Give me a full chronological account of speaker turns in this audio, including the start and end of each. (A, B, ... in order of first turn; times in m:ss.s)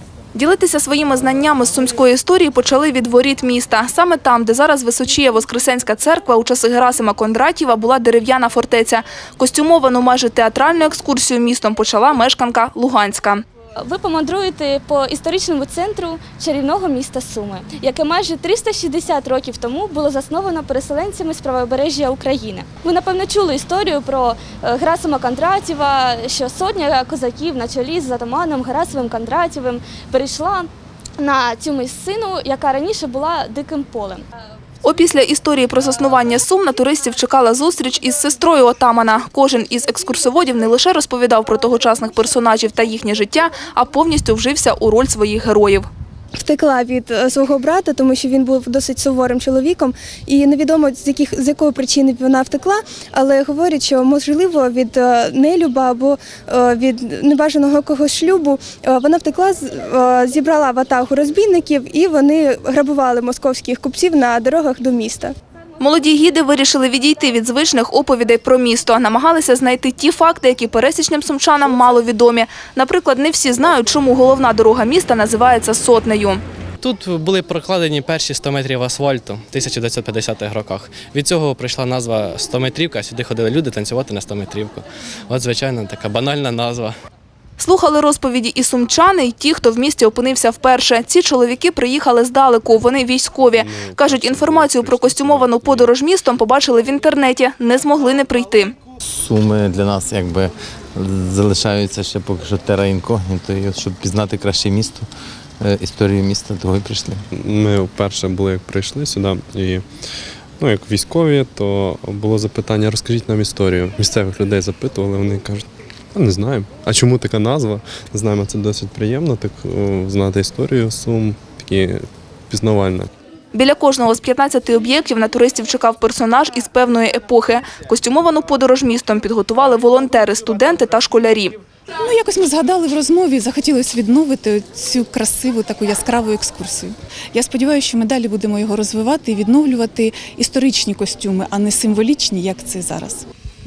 0:00.3-0:13.4 A
0:13.8-0:34.2 B
0:34.8-0:45.9 A
0:46.4-1:05.3 C
1:05.8-1:16.4 A
1:16.8-1:27.0 D
1:27.6-1:38.7 A
1:33.5-1:35.9 E
1:39.0-1:45.1 F
1:45.6-1:47.2 F
1:47.4-1:49.8 E
1:50.6-2:03.1 E
2:03.5-2:11.6 A
2:12.0-2:23.2 G